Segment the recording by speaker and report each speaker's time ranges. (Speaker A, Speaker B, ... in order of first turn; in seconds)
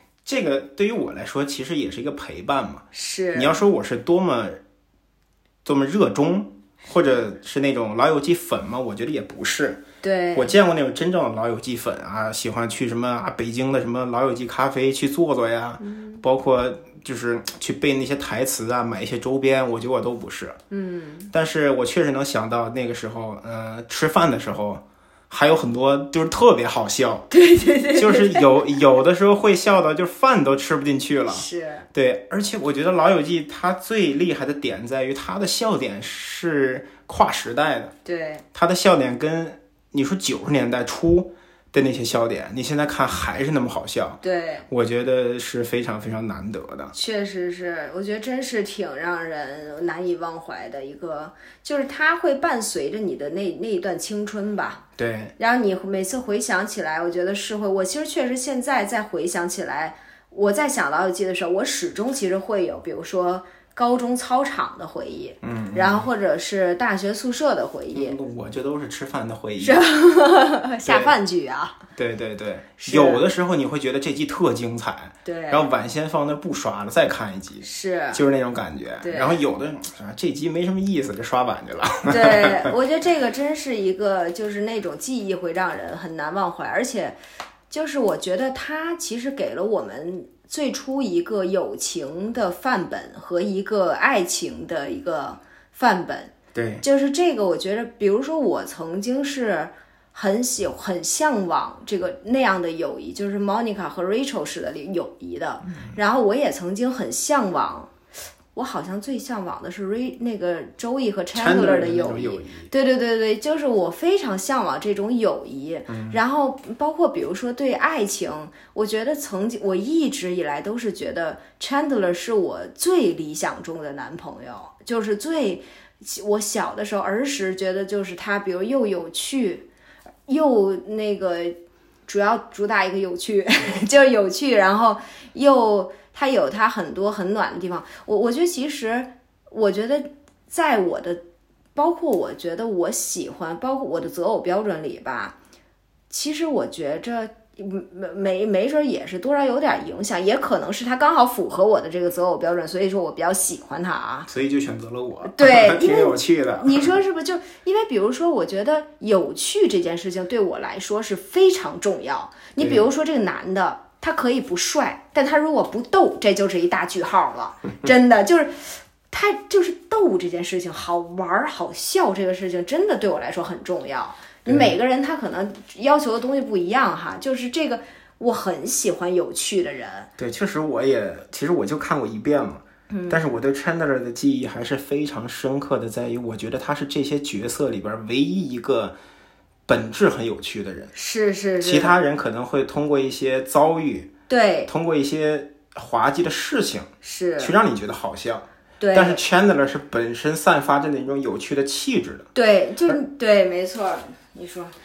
Speaker A: 0.2-4.6, 5.6-9.8, 10.3-20.6, 21.3-27.3, 27.9-37.9, 38.5-46.9, 55.0-55.3, 65.4-66.1, 67.9-69.8, 70.8-71.1, 72.0-82.7, 96.5-96.8, 111.3-112.7, 115.9-116.2, 154.3-156.9, 162.6-162.8, 174.4-174.7, 180.2-189.0, 189.7-190.9, 191.6-194.1, 194.7-202.3
Speaker B: 2.9-3.6, 10.0-10.5, 15.8-16.2, 20.7-21.3, 27.3-28.6, 31.3-31.9, 38.0-38.4, 44.2-44.7, 46.9-54.8, 55.4-68.2, 69.6-71.8, 72.8-73.2, 75.2-75.7, 77.6-78.2, 79.0-79.4, 82.1-87.2, 87.7-107.9, 108.5-129.7, 130.3-141.2, 141.7-145.3, 146.1-154.3, 155.2-180.1, 182.9-183.2, 190.9-192.0, 194.3-194.7, 197.0-197.5, 198.8-199.2, 202.3-204.7